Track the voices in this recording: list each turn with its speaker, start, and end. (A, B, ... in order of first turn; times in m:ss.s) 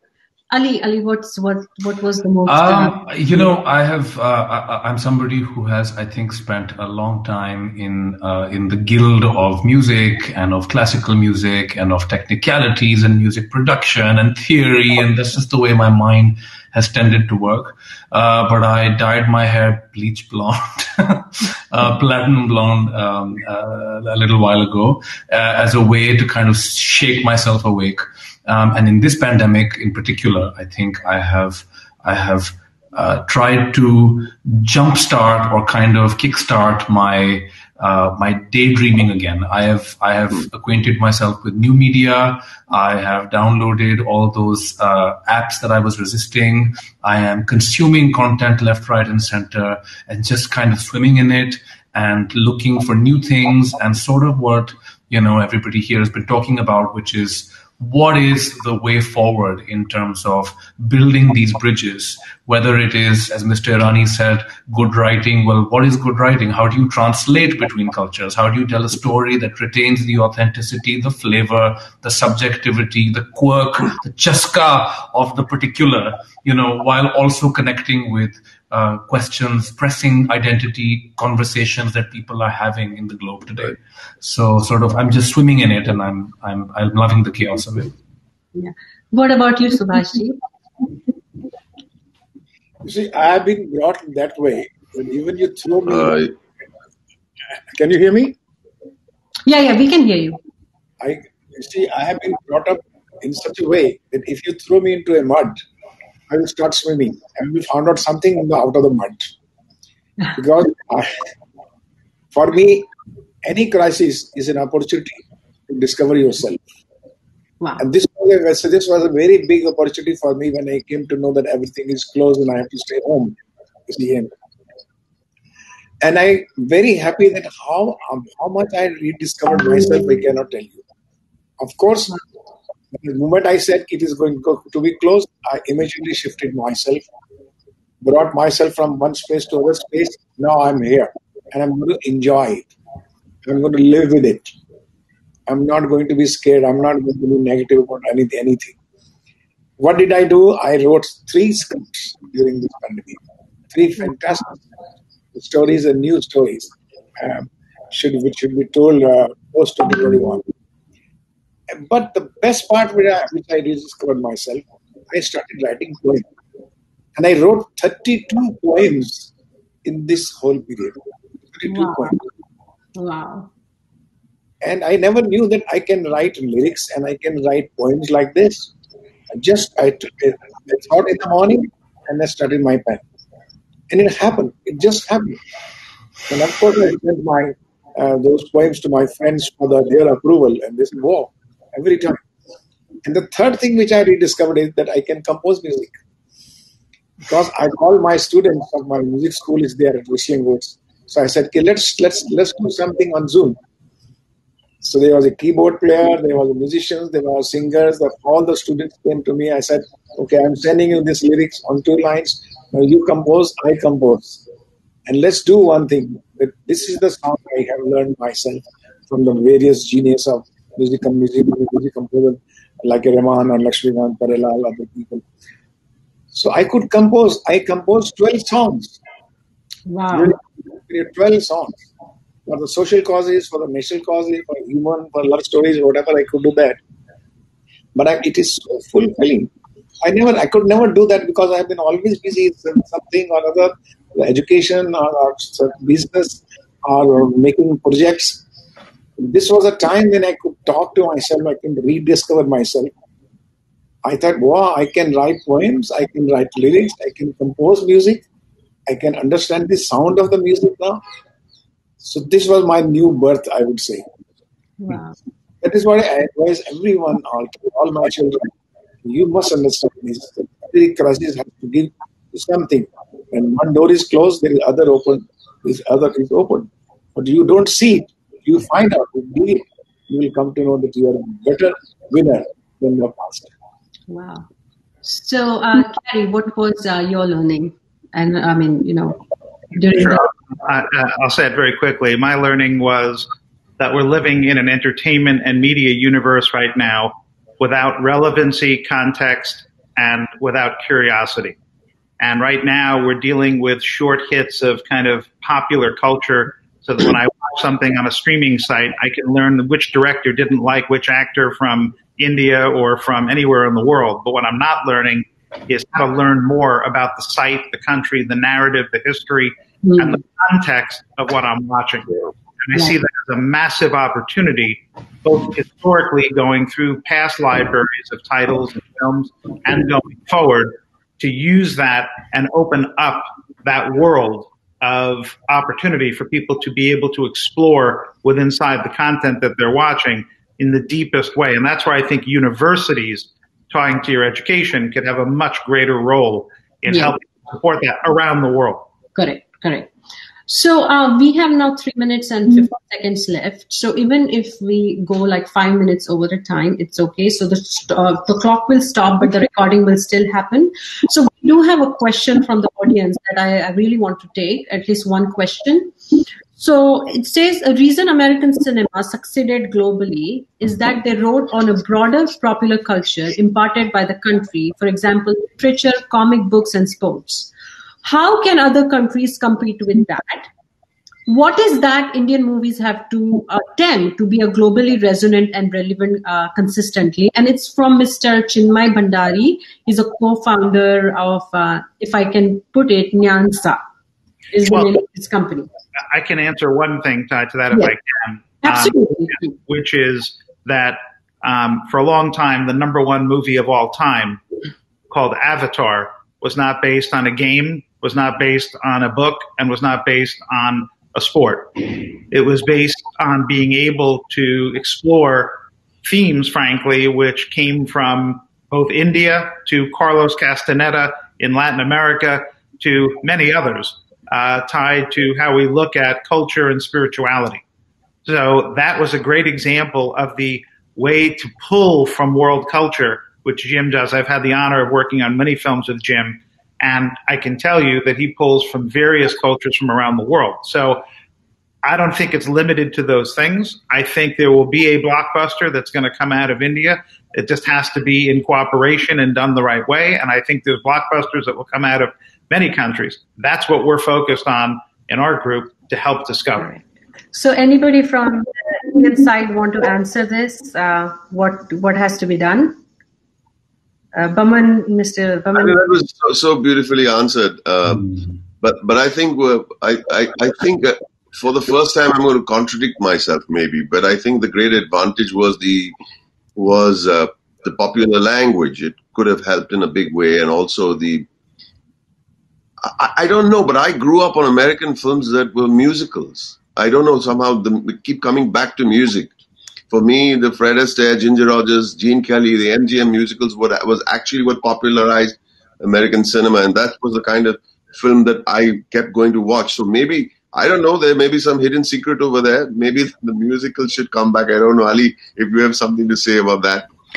0:00.5-0:03.0 A
0:02.5-1:27.9 B
1:28.5-1:30.4 A
1:32.8-1:36.3 C
1:35.9-1:36.3 D
1:37.7-1:38.4 C
1:39.4-1:40.4 A
1:41.0-1:45.6 C
1:46.3-1:49.3 C
1:50.4-1:51.2 C
1:52.3-1:52.9 C
1:53.4-1:56.6 C
1:57.8-2:04.3 C
2:06.0-2:10.8 C
2:11.6-2:12.2 C
2:12.9-2:17.0 C
2:18.0-2:22.7 C
2:23.4-2:24.5 C
2:25.5-2:28.8 C
2:29.8-2:33.2 C
2:33.7-2:34.6 C
2:35.3-2:40.4 C
2:41.7-2:46.3 C
2:47.1-2:49.3 C
2:49.8-2:51.0 C
2:51.5-2:52.2 C
2:51.6-2:52.2 A
2:53.0-2:53.5 A
2:54.6-2:58.7 C
2:59.3-3:03.0 C
3:03.9-3:05.4 C
3:06.3-3:12.2 C
3:13.0-3:15.9 C
3:17.3-3:23.6 C
3:24.8-3:34.4 C
3:35.1-3:45.2 C
3:46.3-3:49.0 C
3:49.9-3:50.3 A
3:50.1-3:51.9 C
3:52.5-3:56.8 C
3:57.9-3:59.5 C
4:00.0-4:08.4 C
4:09.2-4:12.9 C
4:14.0-4:18.2 C
4:18.9-4:21.0 C
4:22.0-4:24.0 C
4:24.8-4:25.1 A
4:25.6-4:43.5 C
4:44.1-4:44.5 A
4:45.0-4:50.3 A
4:49.9-5:01.6 E
5:02.2-5:48.9 E
5:19.8-5:20.2 A
5:46.9-5:47.1 A
5:49.1-5:49.9 A
5:50.5-6:05.9 A
6:06.6-6:17.5 A
6:18.0-6:20.5 A
6:21.3-6:33.8 A
6:34.5-6:35.7 A
6:36.1-6:44.4 E
6:38.6-6:39.5 A
6:45.1-7:07.6 E
7:08.2-7:21.0 E
7:21.8-7:36.7 E
7:36.6-7:42.8 A
7:44.1-7:45.8 A
7:45.5-7:55.9 D
7:56.6-8:01.2 D
8:02.8-8:09.3 D
8:09.9-8:26.9 D